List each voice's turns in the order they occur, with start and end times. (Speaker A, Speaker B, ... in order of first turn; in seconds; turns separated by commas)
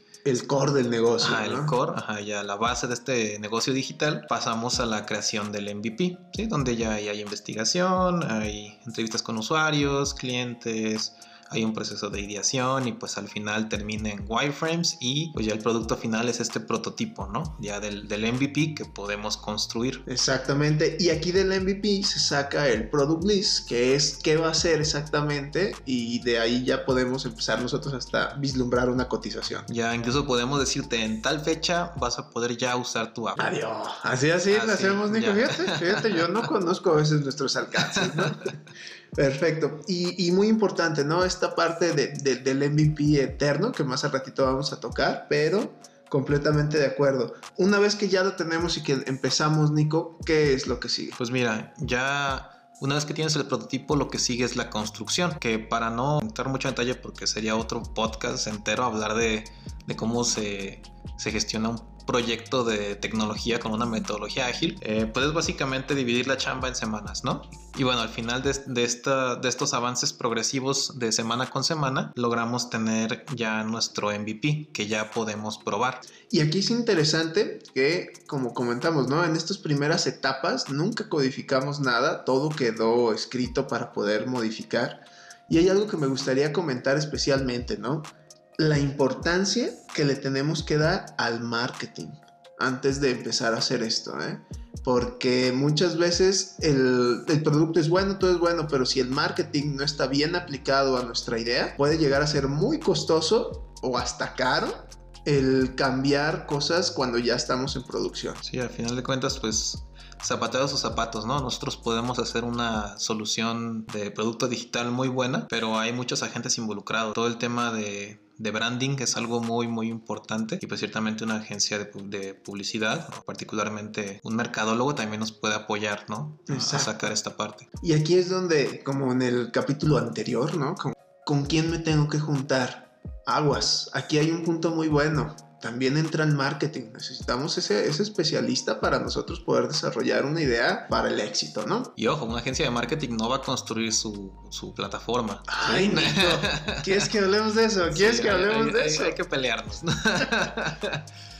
Speaker A: 0.2-1.7, Speaker B: 1.2-20.1, Speaker A: 20.1-29.7, Speaker B: 29.7-33.5, Speaker A: 33.4-38.5, Speaker B: 34.5-36.4, Speaker B: 37.9-38.5, Speaker A: 39.1-51.2, Speaker B: 51.1-76.0, Speaker A: 76.3-88.0, Speaker A: 88.6-108.4, Speaker B: 108.4-127.7, Speaker A: 126.5-127.1, Speaker A: 127.8-141.9, Speaker B: 142.0-147.1, Speaker A: 145.5-149.2, Speaker B: 147.9-151.1